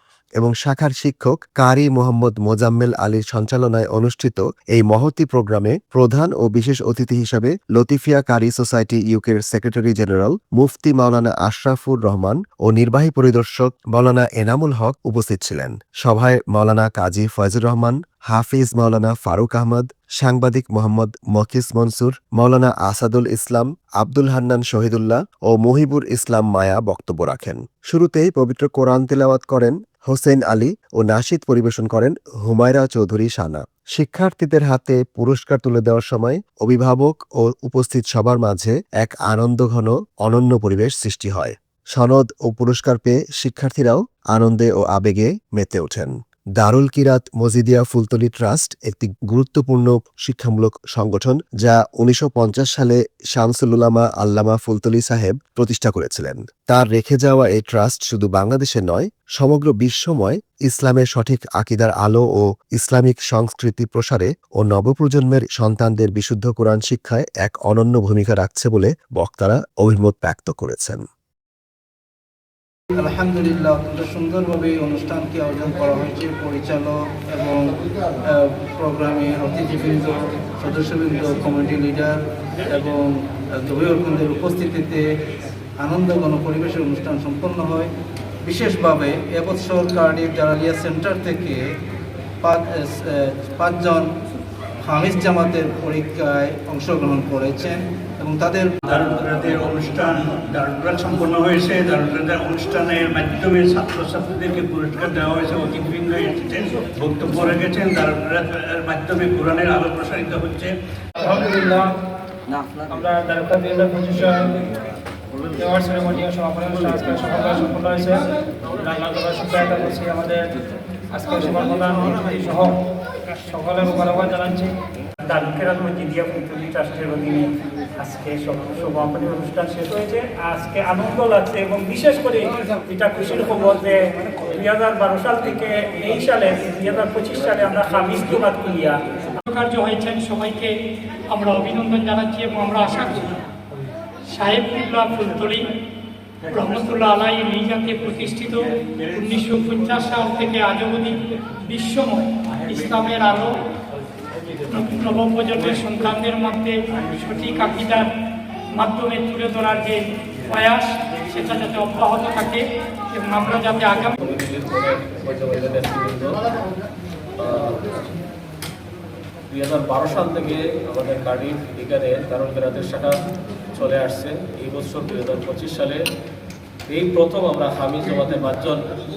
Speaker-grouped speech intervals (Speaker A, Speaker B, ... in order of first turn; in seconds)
Speaker A: 0.4-71.0
Speaker B: 73.0-82.1, 82.7-85.0, 85.8-87.9, 88.4-91.6, 92.4-94.1, 94.8-98.8
Speaker C: 98.8-110.7
Speaker D: 111.2-112.0, 112.9-114.6, 115.5-120.6, 121.1-122.8, 123.4-124.7
Speaker E: 125.2-127.5, 128.0-138.9
Speaker F: 139.4-140.8, 141.3-143.3, 144.3-145.7, 146.5-153.6, 154.7-158.1, 158.7-164.2
Speaker G: 164.2-166.5, 167.4-168.0, 169.5-173.1, 173.7-176.0, 176.9-178.8